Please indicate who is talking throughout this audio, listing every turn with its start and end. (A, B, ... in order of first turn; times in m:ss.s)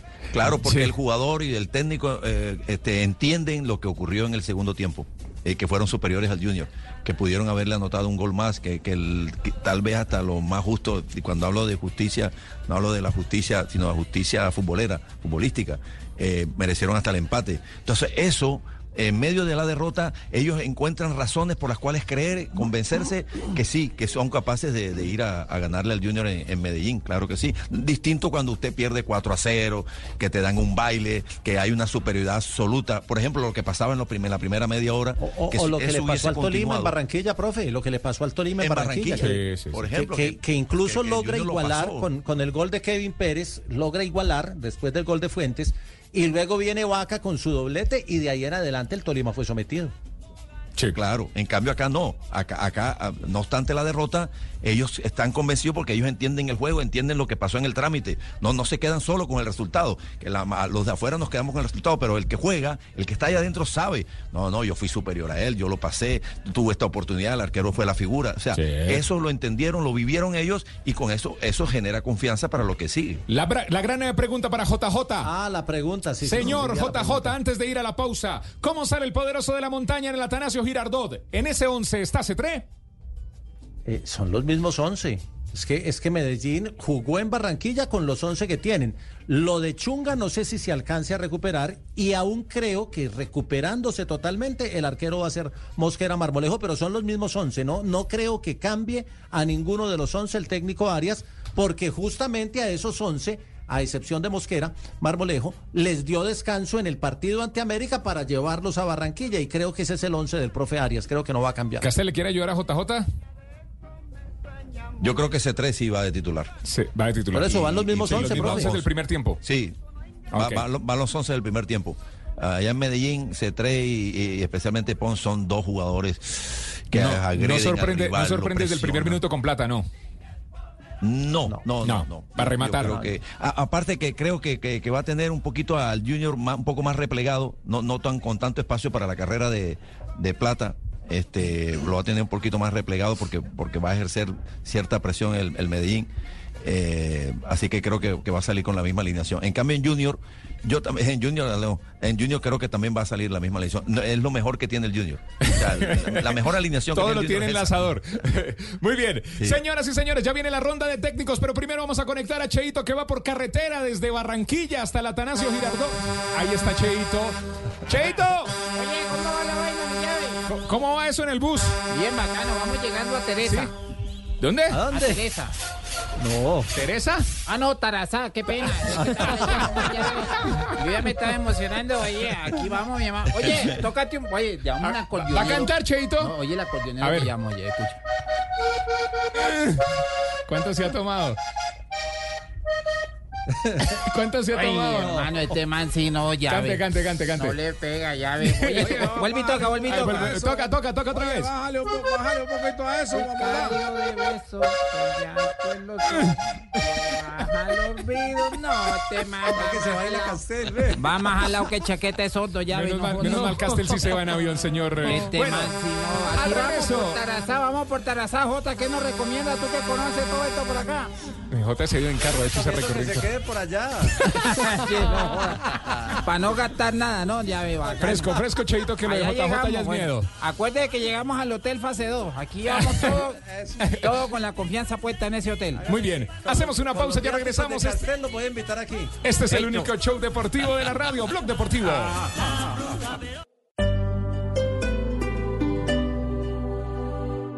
0:00.3-0:37.0 A
0:00.4-0:00.9 B
0:35.2-0:39.4 C
0:38.6-0:42.1 A
0:39.2-0:39.8 B
0:39.9-0:49.9 C
0:50.9-1:13.2 A
1:08.6-1:09.0 B
1:13.3-1:15.3 B
1:15.2-1:17.3 C
1:16.2-1:22.6 B
1:23.8-1:51.9 C
1:51.8-1:53.1 B
1:55.0-1:56.5 A
1:56.6-1:59.4 B
1:57.3-1:58.8 C
1:57.5-1:58.8 A
1:59.4-1:59.8 A
2:00.3-2:00.6 B
2:00.3-2:09.2 A
2:06.9-2:09.9 B
2:11.0-2:26.1 A
2:11.8-2:13.0 B
2:26.6-2:37.9 A
2:35.4-2:36.4 B
2:36.9-2:48.5 B
2:48.7-2:50.4 D
2:50.5-2:51.8 B
2:51.9-2:53.7 D
2:53.4-2:53.7 B
2:54.4-2:54.9 B
2:54.7-2:55.1 C
2:54.9-2:55.5 D
2:56.2-2:56.7 C
2:56.7-2:57.3 B
2:57.5-3:08.0 D
3:04.8-3:06.3 B
3:07.0-3:07.3 B
3:09.4-3:09.8 B
3:10.5-3:11.4 B
3:13.9-3:15.3 B
3:14.5-3:16.8 D
3:16.5-3:17.6 B
3:17.4-3:20.5 D
3:18.4-3:21.5 B
3:19.2-3:23.8 E
3:21.9-3:22.2 D
3:23.1-3:30.4 D
3:29.6-3:30.4 C
3:31.0-3:34.0 D
3:32.7-3:35.7 B
3:35.0-3:41.1 D
3:36.3-3:37.2 B
3:41.5-3:43.3 B
3:42.5-3:44.2 C
3:44.3-3:48.4 D
3:48.0-3:50.3 B
3:49.0-3:55.8 D
3:55.9-3:58.1 B
3:56.5-3:59.2 C
3:59.2-4:02.2 B